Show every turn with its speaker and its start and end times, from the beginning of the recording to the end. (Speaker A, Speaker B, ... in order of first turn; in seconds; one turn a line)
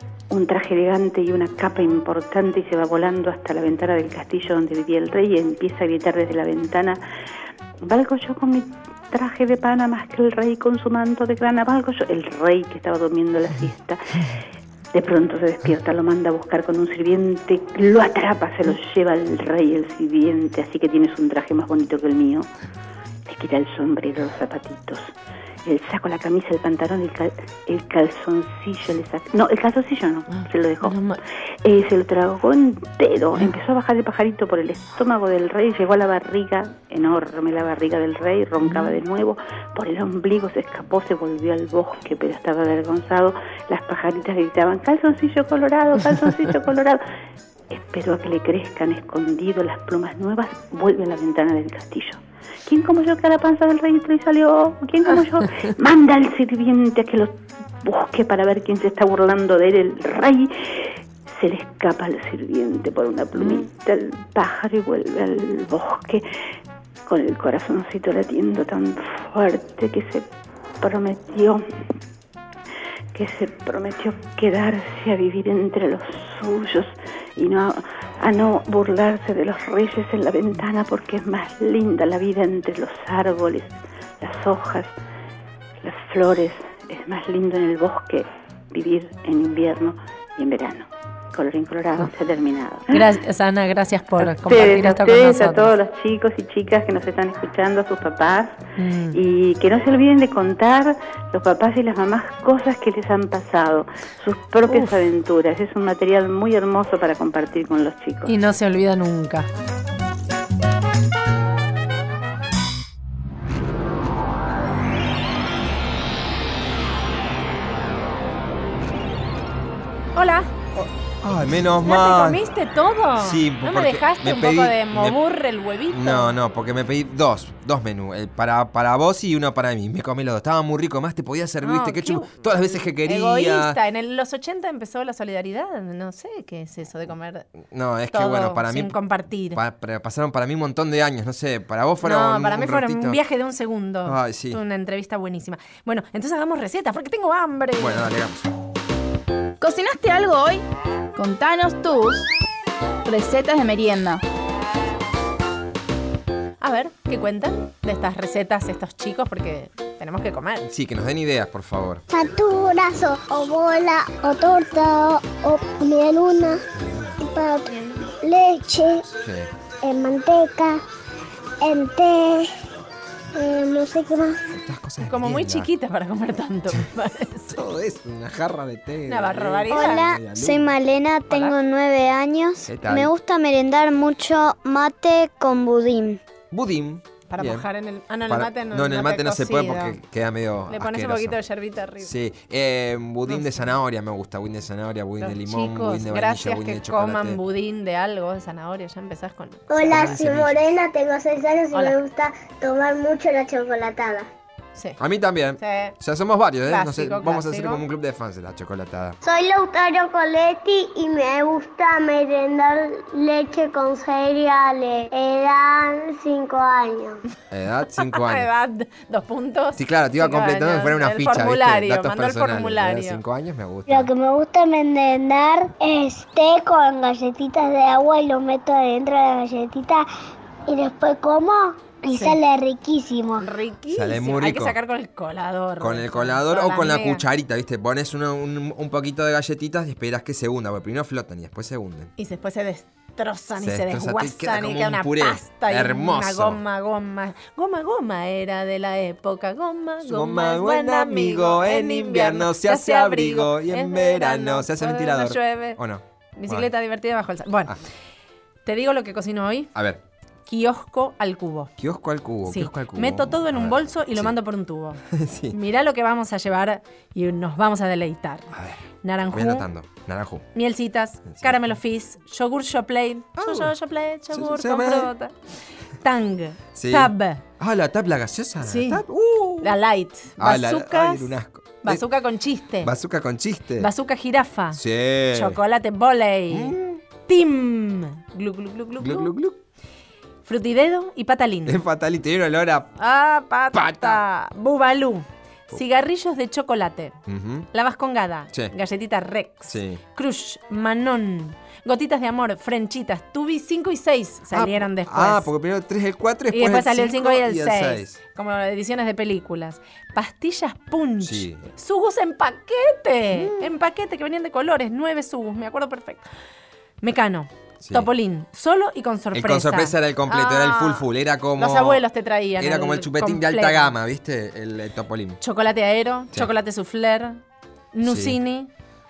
Speaker A: 0.3-7.0
Speaker A: 7.8-14.0
Speaker A: 14.9-22.5
Speaker A: 23.2-25.1
Speaker A: 25.6-31.0
Speaker B: 30.3-31.2
Speaker A: 31.6-47.0
Speaker B: 38.6-39.0
Speaker A: 47.7-66.2
Speaker B: 63.4-63.6
Speaker A: 67.1-70.2
Speaker A: 70.8-71.6
Speaker A: 73.1-84.9
Speaker A: 85.8-93.0
Speaker B: 92.9-95.7
Speaker A: 94.2-98.6
Speaker B: 98.8-99.2
Speaker A: 99.1-108.3
Speaker B: 104.7-105.0
Speaker B: 108.2-109.5
Speaker B: 120.1-120.6
Speaker C: 121.2-122.4
Speaker B: 121.8-126.3
Speaker C: 123.2-125.2
Speaker C: 125.9-133.8
Speaker B: 131.6-132.4
Speaker B: 133.0-137.5
Speaker C: 137.7-138.9
Speaker B: 138.1-139.6
Speaker C: 139.5-143.2
Speaker B: 142.0-148.1
Speaker C: 144.1-144.6
Speaker C: 147.8-148.5
Speaker D: 149.6-150.6
Speaker D: 151.2-152.3
Speaker D: 153.0-154.2
Speaker B: 156.6-160.7
Speaker C: 160.7-162.0
Speaker E: 162.1-166.6
Speaker C: 166.7-167.2
Speaker E: 167.2-169.1
Speaker C: 169.2-169.5
Speaker E: 169.8-170.8
Speaker E: 171.6-172.5
Speaker E: 173.3-174.5
Speaker C: 174.5-175.7
Speaker B: 175.1-177.6
Speaker C: 177.5-180.8
Speaker B: 179.1-180.1
Speaker F: 179.7-186.2
Speaker B: 181.3-181.6
Speaker C: 182.6-183.1
Speaker C: 186.5-187.7
Speaker B: 187.3-190.0
Speaker C: 188.3-191.3
Speaker B: 190.7-192.1
Speaker C: 192.0-197.4
Speaker B: 193.3-193.7
Speaker B: 195.2-200.3
Speaker E: 199.7-204.3
Speaker C: 199.8-200.5
Speaker B: 204.7-205.0
Speaker C: 205.0-209.2
Speaker B: 205.6-205.9
Speaker B: 206.7-207.8
Speaker E: 209.2-217.2
Speaker C: 217.5-218.4
Speaker B: 218.0-223.2
Speaker C: 219.8-224.1
Speaker E: 223.9-230.0
Speaker E: 230.7-233.4
Speaker B: 232.1-232.4
Speaker B: 233.4-237.2
Speaker C: 233.9-234.7
Speaker C: 235.8-242.1
Speaker B: 242.2-255.8
Speaker C: 243.6-246.6
Speaker C: 250.0-256.7
Speaker B: 256.4-257.7
Speaker B: 258.6-259.7
Speaker C: 259.7-260.0
Speaker B: 260.5-261.7
Speaker C: 261.8-264.3
Speaker B: 262.5-268.5
Speaker C: 265.1-265.6
Speaker C: 268.5-270.4
Speaker B: 269.0-269.6
Speaker B: 270.5-275.3
Speaker C: 271.3-271.6
Speaker C: 273.4-273.7
Speaker C: 274.3-275.1
Speaker B: 276.0-277.4
Speaker C: 276.7-279.8
Speaker B: 278.6-279.0
Speaker B: 279.6-281.3
Speaker C: 280.4-282.0
Speaker B: 281.8-282.9
Speaker C: 282.8-283.9
Speaker B: 283.8-284.8
Speaker C: 284.7-285.6
Speaker B: 285.3-286.7
Speaker C: 286.5-287.0
Speaker B: 287.3-289.3
Speaker C: 289.0-289.6
Speaker B: 290.4-291.8
Speaker C: 291.7-292.9
Speaker B: 293.0-297.2
Speaker C: 293.7-294.2
Speaker C: 297.3-297.7
Speaker B: 297.7-305.5
Speaker C: 299.7-300.0
Speaker C: 304.5-308.1
Speaker B: 306.5-316.2
Speaker C: 311.2-311.7
Speaker C: 313.3-313.7
Speaker B: 317.0-321.1
Speaker C: 317.8-318.1
Speaker C: 319.3-322.0
Speaker B: 321.6-323.9
Speaker C: 322.6-325.4
Speaker B: 325.4-327.4
Speaker B: 327.9-328.7
Speaker C: 328.0-328.4